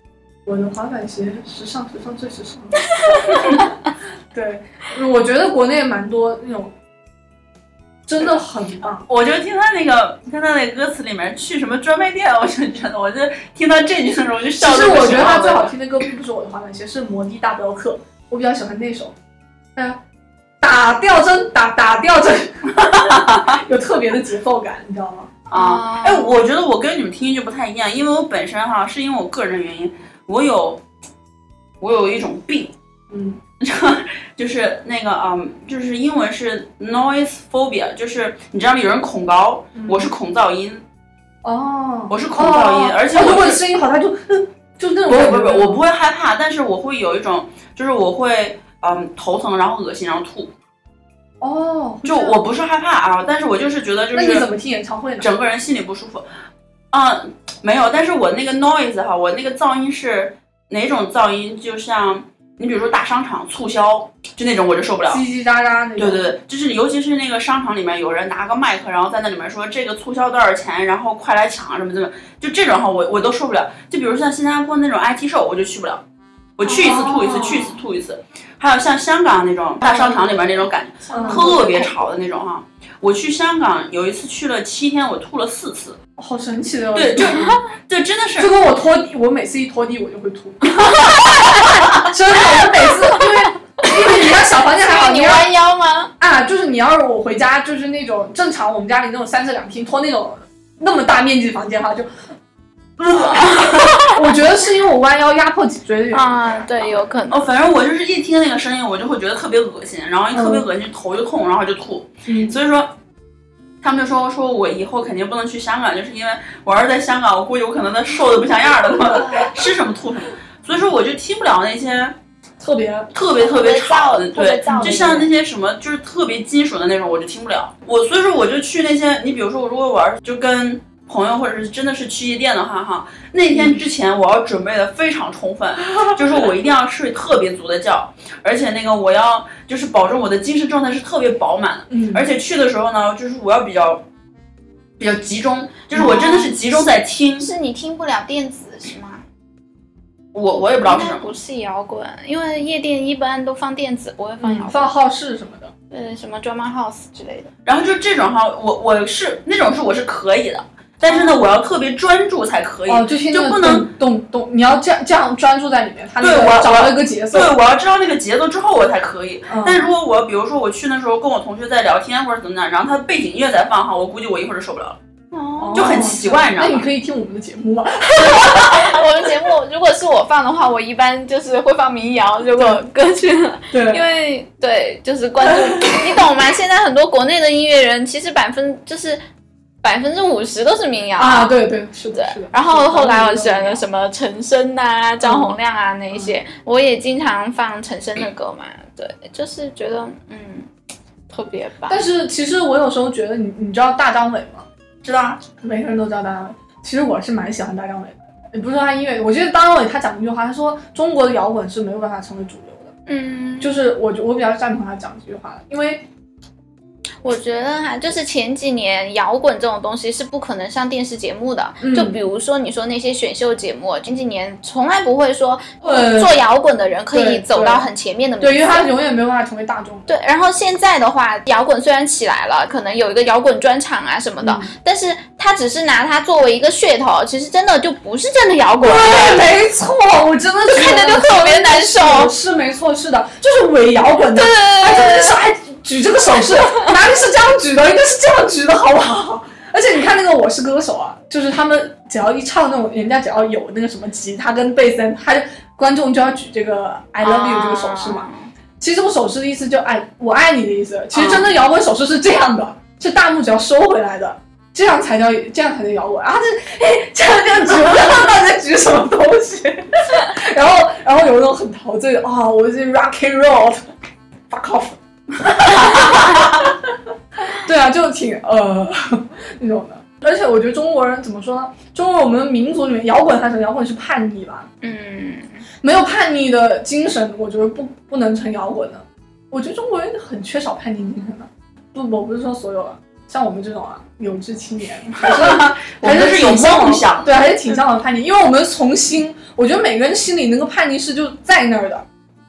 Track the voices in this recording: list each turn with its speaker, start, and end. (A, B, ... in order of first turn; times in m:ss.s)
0:00.4-0:03.6 A
0:03.1-0:03.6 B
0:04.3-0:06.7 A
0:08.1-0:09.0 A
0:09.1-0:15.7 C
0:14.6-0:19.1 A
0:20.6-0:22.7 A
0:22.8-0:23.6 C
0:23.5-0:25.3 A
0:25.5-0:26.4 B
0:25.5-0:30.8 C
0:31.8-0:32.7 C
0:33.1-0:33.4 A
0:33.6-0:40.8 C
0:39.7-0:40.1 A
0:41.4-0:45.8 A
0:42.1-0:43.6 C
0:45.1-0:50.5 C
0:51.4-0:52.5 A
0:52.0-0:54.4 C
0:54.1-0:55.3 A
0:55.2-0:56.2 C
0:56.9-1:05.2 C
1:05.0-1:06.3 A
1:06.0-1:16.0 C
1:16.6-1:26.0 C
1:16.7-1:17.8 A
1:19.8-1:22.0 B
1:21.1-1:21.5 A
1:26.2-1:27.4 A
1:26.9-1:28.5 C
1:28.4-1:30.8 A
1:30.8-1:31.7 B
1:32.0-1:35.5 A
1:34.7-1:36.1 B
1:36.2-1:42.1 A
1:43.1-1:44.4 B
1:43.1-1:46.3 A
1:46.1-1:47.5 B
1:47.3-1:52.9 C
1:50.3-1:50.7 A
1:52.2-1:52.6 A
1:53.8-2:02.1 C
1:59.0-1:59.6 B
2:02.6-2:03.1 A
2:03.1-2:24.0 C
2:03.4-2:05.3 B
2:13.5-2:13.8 A
2:21.9-2:22.3 A
2:25.0-2:27.5 C
2:25.9-2:26.5 A
2:26.0-2:26.5 B
2:27.4-2:29.2 B
2:30.3-2:31.3 C
2:30.6-2:34.9 B
2:34.4-2:35.7 A
2:35.9-2:37.5 B
2:37.6-2:43.9 C
2:41.1-2:41.4 B
2:42.9-2:47.6 A
2:46.2-2:55.0 C
2:49.5-2:49.9 A
2:55.3-2:56.0 B
2:55.6-2:59.0 A
2:55.7-2:56.9 C
2:58.1-3:09.2 B
3:03.7-3:04.0 A
3:09.8-3:11.6 B
3:11.2-3:13.8 A
3:12.1-3:20.7 B
3:15.2-3:15.6 A
3:16.1-3:16.4 A
3:21.3-3:22.0 B
3:21.9-3:24.6 A
3:25.0-3:25.4 C
3:25.6-3:32.9 A
3:33.1-3:33.8 B
3:33.6-3:36.1 A
3:37.2-3:48.9 B
3:41.8-3:42.2 A
3:45.8-3:46.4 A
3:47.1-3:47.9 A
3:48.4-3:50.1 A
3:50.1-3:59.4 B
3:54.4-3:54.7 A
3:58.8-4:18.3 A
4:00.7-4:02.3 B
4:04.2-4:05.4 B
4:17.2-4:18.5 B
4:18.8-4:33.9 A
4:21.1-4:21.5 C
4:34.5-4:36.8 A
4:37.5-4:44.7 A
4:44.8-4:45.6 B
4:45.8-5:02.0 A
4:55.2-4:57.4 C